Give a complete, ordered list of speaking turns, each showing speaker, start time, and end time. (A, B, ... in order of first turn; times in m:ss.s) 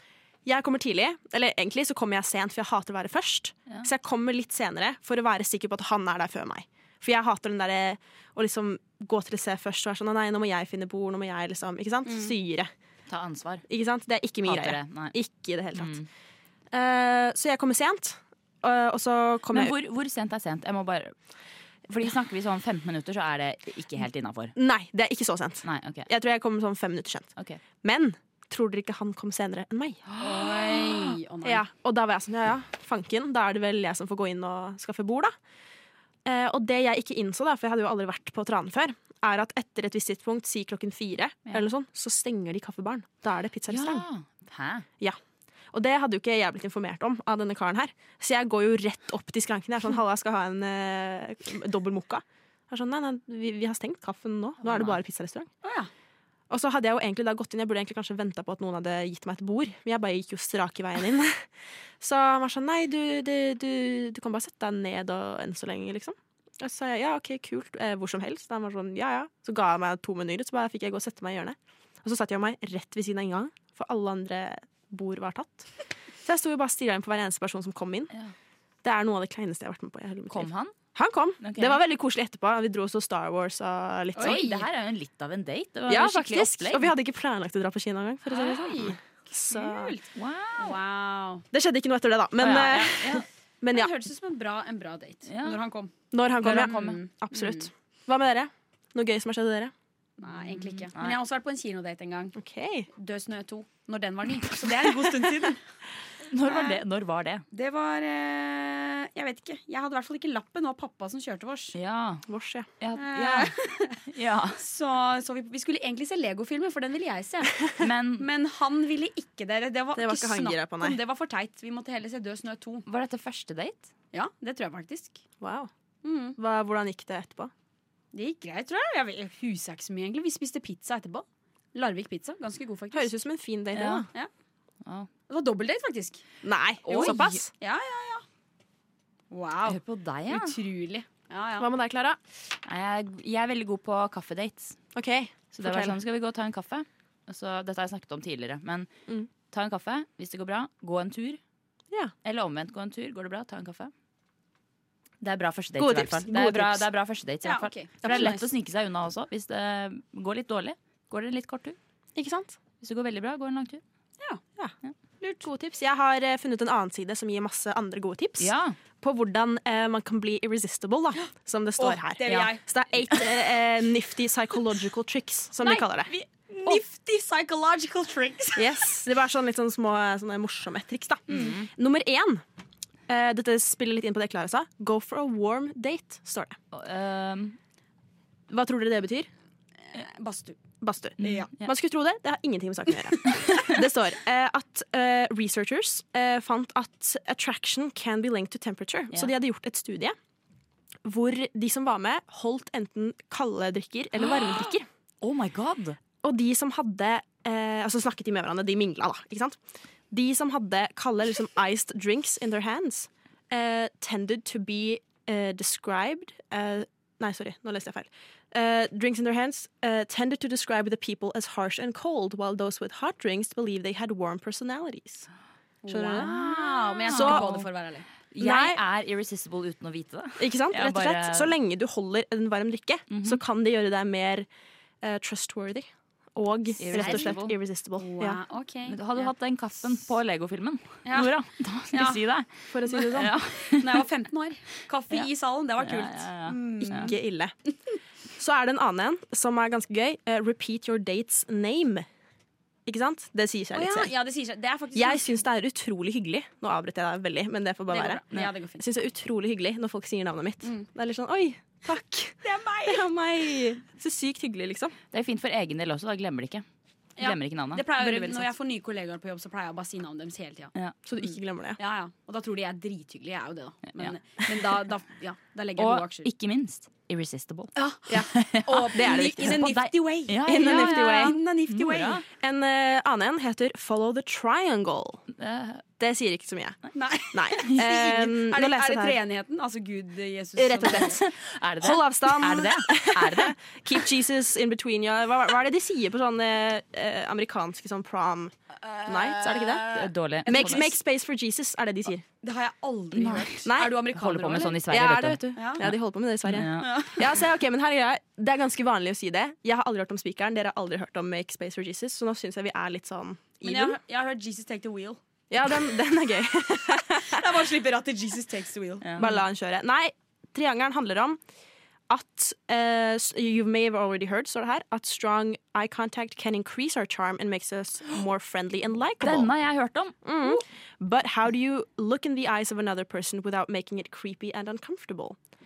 0:00.4-0:12.7 A
0:12.0-0:12.3 B
0:13.1-0:13.6 C
0:13.7-0:15.9 A
0:14.4-0:15.2 C
0:15.7-0:16.1 C
0:16.7-0:19.7 A
0:19.5-0:21.1 C
0:21.9-0:24.5 C
0:24.6-0:27.3 A
0:25.6-0:26.1 C
0:27.8-0:30.0 A
0:30.1-0:31.1 C
0:30.2-0:31.6 B
0:31.4-0:35.3 A
0:36.2-0:44.0 A
0:43.7-0:44.8 C
0:45.7-0:55.5 A
0:54.6-0:55.0 C
0:55.6-0:55.9 B
0:56.5-1:01.4 A
1:02.0-1:15.7 A
1:16.2-1:18.1 A
1:18.8-1:24.4 A
1:20.3-1:20.7 C
1:21.4-1:21.8 C
1:24.2-1:24.7 B
1:24.2-1:26.9 C
1:25.9-1:29.9 A
1:28.3-1:31.4 B
1:30.1-1:30.8 C
1:31.5-1:33.9 A
1:32.4-1:33.2 C
1:33.7-1:35.9 B
1:35.3-1:35.6 C
1:36.1-1:39.7 A
1:36.4-1:37.0 C
1:36.4-1:37.7 B
1:40.2-1:42.3 B
1:40.3-1:41.2 C
1:42.3-1:42.9 A
1:42.9-1:45.6 B
1:46.2-1:47.4 C
1:46.4-1:46.8 B
1:47.5-1:51.7 B
1:51.7-1:52.3 C
1:52.3-1:52.7 A
1:52.8-1:54.6 C
1:53.0-1:57.6 B
1:57.8-1:58.3 C
1:58.2-2:02.8 B
1:59.9-2:01.0 A
2:02.9-2:03.9 C
2:04.1-2:05.2 B
2:05.4-2:05.7 A
2:06.0-2:06.4 B
2:06.4-2:07.5 A
2:08.1-2:13.1 B
2:12.9-2:14.1 A
2:13.7-2:14.1 C
2:14.8-2:15.1 C
2:15.3-2:16.2 B
2:16.4-2:17.5 A
2:16.8-2:17.4 C
2:16.9-2:18.2 B
2:19.3-2:21.7 B
2:19.7-2:20.6 C
2:21.6-2:22.2 A
2:22.6-2:24.8 C
2:24.9-2:26.0 A
2:25.5-2:28.9 C
2:29.5-2:31.4 C
2:32.2-2:33.9 C
2:35.2-2:41.8 C
2:35.8-2:36.8 A
2:37.4-2:38.5 B
2:38.0-2:38.3 A
2:42.2-2:42.6 A
2:42.8-2:43.8 C
2:44.6-2:56.1 A
2:48.4-2:48.8 C
2:51.2-2:52.6 B
2:52.3-2:52.5 C
2:55.6-2:58.7 B
2:58.6-3:02.4 A
3:01.3-3:01.7 C
3:03.1-3:06.6 A
3:06.7-3:07.6 C
3:08.5-3:09.3 A
3:09.9-3:10.6 B
3:10.8-3:20.2 A
3:11.2-3:11.5 B
3:11.2-3:11.7 C
3:21.0-3:24.9 A
3:24.3-3:24.7 C
3:25.2-3:26.0 C
3:26.2-3:29.6 A
3:30.1-3:45.3 A
3:45.8-3:48.0 B
3:45.9-3:46.3 A
3:46.2-3:47.7 C
3:47.1-3:47.5 A
3:48.3-3:51.5 C
3:48.4-3:48.8 A
3:50.4-3:54.5 A
3:53.1-3:53.4 C
3:55.0-3:58.4 A
3:56.8-3:57.5 C
3:56.9-3:57.4 B
3:58.0-3:59.3 B
3:58.9-4:04.0 C
4:01.0-4:01.3 B
4:01.9-4:02.2 B
4:02.7-4:03.3 A
4:03.6-4:07.2 B
4:05.8-4:07.1 C
4:06.9-4:07.5 A
4:08.4-4:12.1 A
4:12.8-4:14.1 A
4:13.7-4:15.4 B
4:14.9-4:18.2 A
4:17.9-4:18.8 B
4:18.8-4:25.0 A
4:22.4-4:23.0 B
4:25.1-4:26.6 C
4:27.2-4:30.7 B
4:27.2-4:28.4 C
4:31.0-4:31.8 A
4:31.8-4:36.3 B
4:35.8-4:42.2 C
4:37.8-4:42.2 B
4:38.1-4:39.7 A
4:40.4-4:41.4 A
4:42.3-4:45.2 A
4:45.3-4:45.8 C
4:46.0-4:46.8 A
4:46.9-4:51.2 B
4:47.3-4:49.2 A
4:50.6-4:51.3 A
4:50.9-4:53.8 C
4:51.8-4:58.5 A
4:58.7-5:01.0 B
4:59.0-5:02.2 A
4:59.9-5:00.9 C
5:02.4-5:04.8 B
5:03.1-5:06.0 C
5:03.6-5:04.0 A
5:04.9-5:14.0 A
5:05.6-5:05.8 B
5:06.5-5:06.9 C
5:06.6-5:07.2 B
5:13.6-5:15.2 B
5:15.5-5:17.6 A
5:17.2-5:19.3 B
5:19.0-5:19.3 C
5:19.2-5:21.4 A
5:22.1-5:29.5 A
5:29.2-5:30.1 C
5:30.2-5:35.4 A